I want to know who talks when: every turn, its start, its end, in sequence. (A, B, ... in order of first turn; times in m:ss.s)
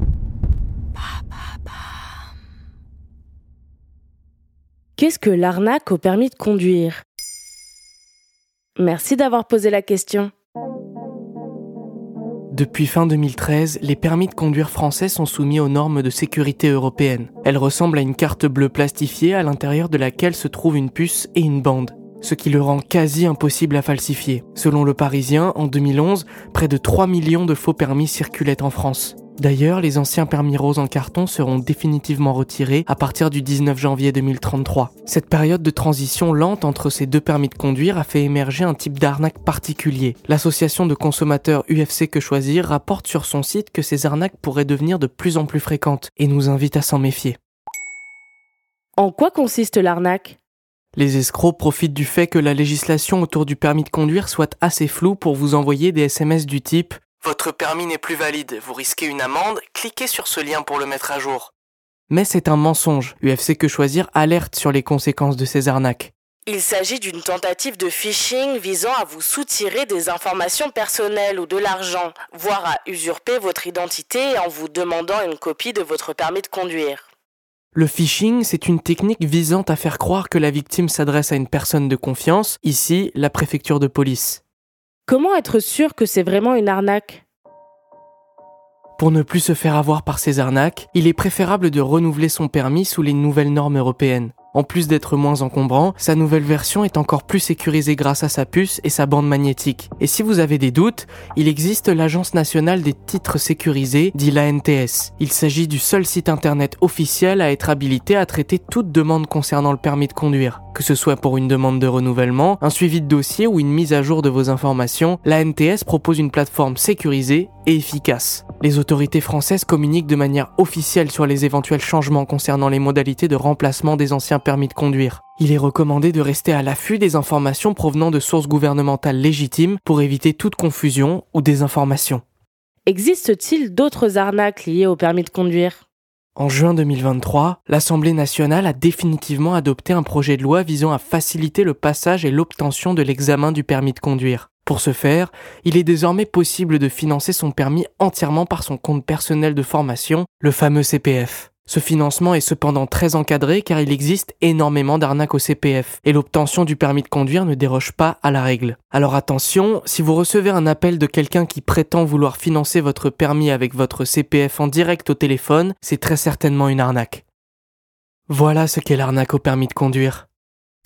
0:05.0-0:07.0 A
0:08.8-0:10.3 A
0:12.5-0:47.4 B
0:49.0-0:50.4 A
0:50.9-1:01.5 B
1:02.1-1:06.1 B
1:06.4-1:17.1 A
1:17.7-1:24.4 B
1:25.1-1:27.2 A
1:29.0-2:12.2 B
2:12.8-2:15.8 A
2:16.4-2:47.2 B
2:48.3-2:50.3 B